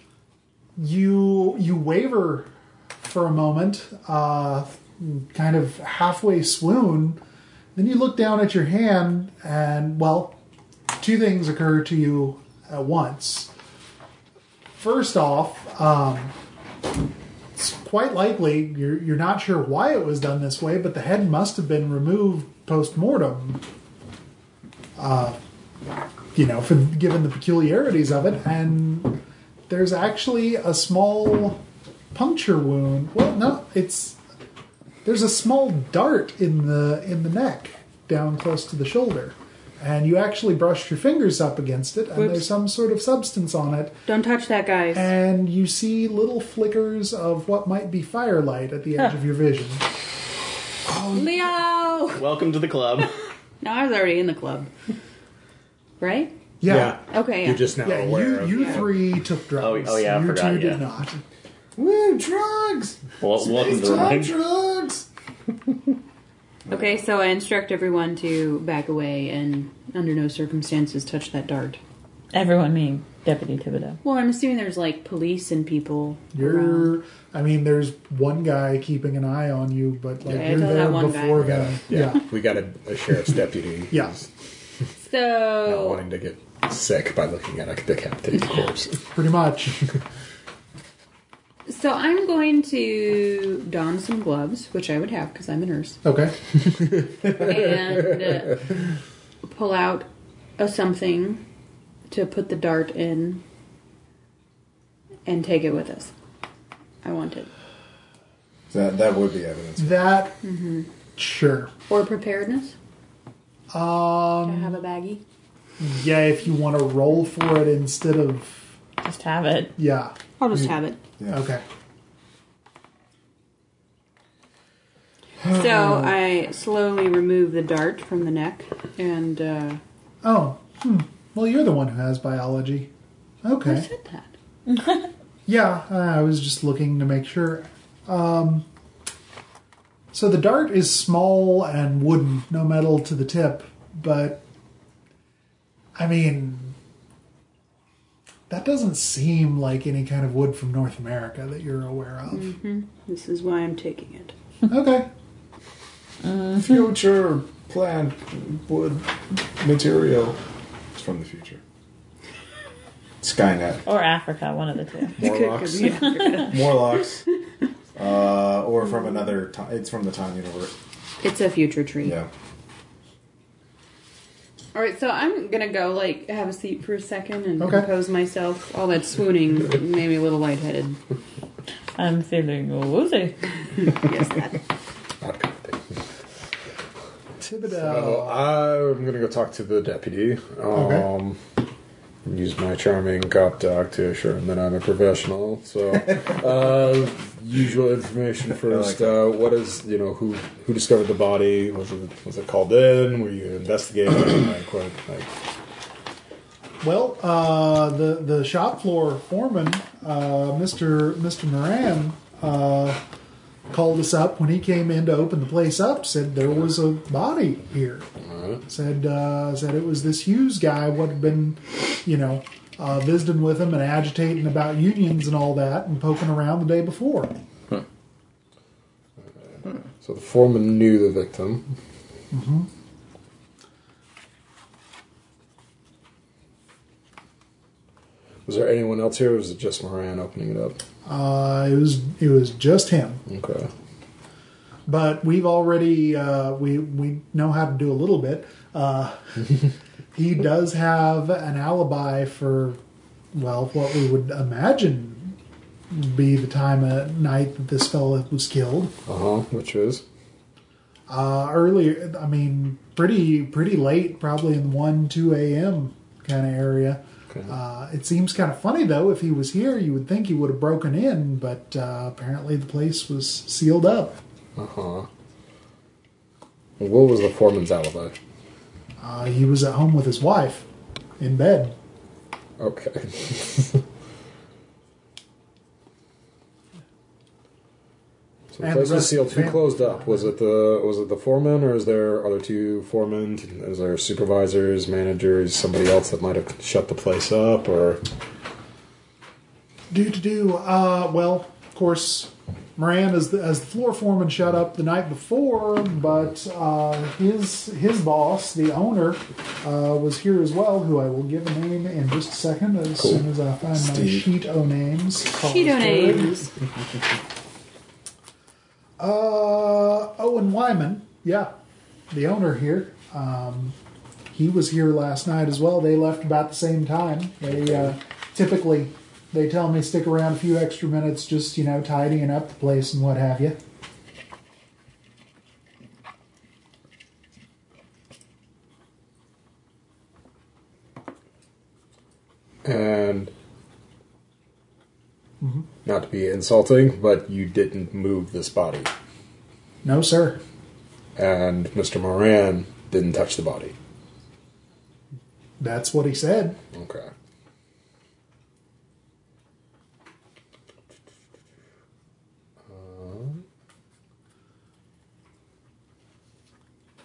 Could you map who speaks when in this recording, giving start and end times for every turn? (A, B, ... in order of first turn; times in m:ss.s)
0:00.8-0:07.2 A
0:07.7-0:10.4 A
0:11.0-0:13.5 A
0:14.8-0:16.3 A
0:17.6-0:23.6 A
0:25.0-0:25.4 A
0:26.3-0:31.6 A
0:32.1-0:34.2 A
0:35.0-0:44.0 A
0:42.1-0:42.5 B
0:44.0-0:45.1 B
0:44.9-0:49.8 A
0:50.9-0:51.5 A
0:51.1-0:52.3 B
0:52.2-0:53.1 C
0:53.6-0:54.7 B
0:56.0-0:56.3 B
0:56.6-0:57.0 A
0:56.6-0:59.0 D
0:57.0-0:57.7 B
0:57.8-1:01.2 A
0:59.6-1:00.9 C
1:01.8-1:05.0 E
1:03.2-1:04.3 C
1:06.7-1:11.8 B
1:12.3-1:14.0 F
1:14.0-1:16.9 B
1:16.3-1:22.3 A
1:20.2-1:21.6 B
1:21.4-1:24.3 D
1:25.0-1:26.0 B
1:25.6-1:29.1 D
1:29.1-1:29.8 A
1:31.7-1:36.0 B
1:36.0-1:36.3 A
1:37.2-1:38.7 B
1:39.4-1:41.4 B
1:42.1-1:43.4 B
1:45.2-1:46.1 B
1:47.0-1:47.5 B
1:48.7-1:50.1 E
1:49.8-1:50.4 A
1:50.4-1:50.9 B
1:51.2-1:51.7 A
1:51.9-1:52.8 B
1:53.7-1:54.8 A
1:54.4-1:55.2 B
1:55.8-1:58.7 A
1:59.0-1:59.8 F
1:59.8-2:00.2 A
2:00.4-2:01.0 B
2:01.3-2:01.6 A
2:05.4-2:09.8 B
2:05.5-2:06.1 A
2:10.2-2:12.9 A
2:13.4-2:13.9 A
2:13.6-2:14.3 B
2:15.4-2:18.6 A
2:20.1-2:24.4 A
2:26.0-2:26.7 A
2:28.5-2:32.5 A
2:32.3-2:34.3 B
2:34.7-2:35.1 A
2:36.5-2:40.4 E
2:40.9-2:41.6 E
2:43.2-2:43.8 E
2:43.8-2:45.2 F
2:45.1-2:47.0 B
2:45.2-2:45.5 E
2:45.4-2:46.0 D
2:46.4-2:47.2 E
2:48.0-2:50.7 E
2:51.2-2:52.2 B
2:52.0-2:52.3 E
2:54.7-3:01.0 B
2:57.6-2:57.9 A
3:02.0-3:03.5 F
3:03.8-3:04.6 B
3:05.2-3:05.9 D
3:07.4-3:08.5 A
3:07.7-3:11.4 D
3:10.7-3:11.1 A
3:12.2-3:25.3 D
3:18.7-3:19.2 E
3:26.8-3:33.0 A
3:33.7-3:38.1 A
3:38.3-3:38.6 D
3:38.6-3:47.3 A
3:49.5-3:51.7 D
3:52.3-3:52.7 A
3:58.4-4:00.8 D
4:01.0-4:03.2 A
4:03.3-4:03.7 D
4:04.9-4:09.6 A
4:10.1-4:12.8 A
4:13.3-4:15.4 A
4:15.9-4:18.9 A
4:19.1-4:20.0 D
4:21.1-4:34.2 A
4:34.6-4:35.1 D
4:36.8-4:38.2 D
4:39.0-4:40.7 A
4:41.2-4:41.8 A
4:42.6-4:43.8 D
4:48.5-4:58.0 D
4:48.6-4:50.3 A
4:59.9-5:16.5 A
5:13.8-5:14.3 E
5:15.3-5:16.4 B
5:19.0-5:21.5 A
5:22.1-5:23.7 A
5:24.3-5:33.6 A
5:42.6-5:43.3 D
5:45.4-5:45.7 A
5:45.8-5:48.9 D
5:49.8-5:50.4 A
5:51.2-5:53.7 D
5:55.6-5:56.6 A
5:56.7-5:57.1 D
6:02.7-6:03.4 D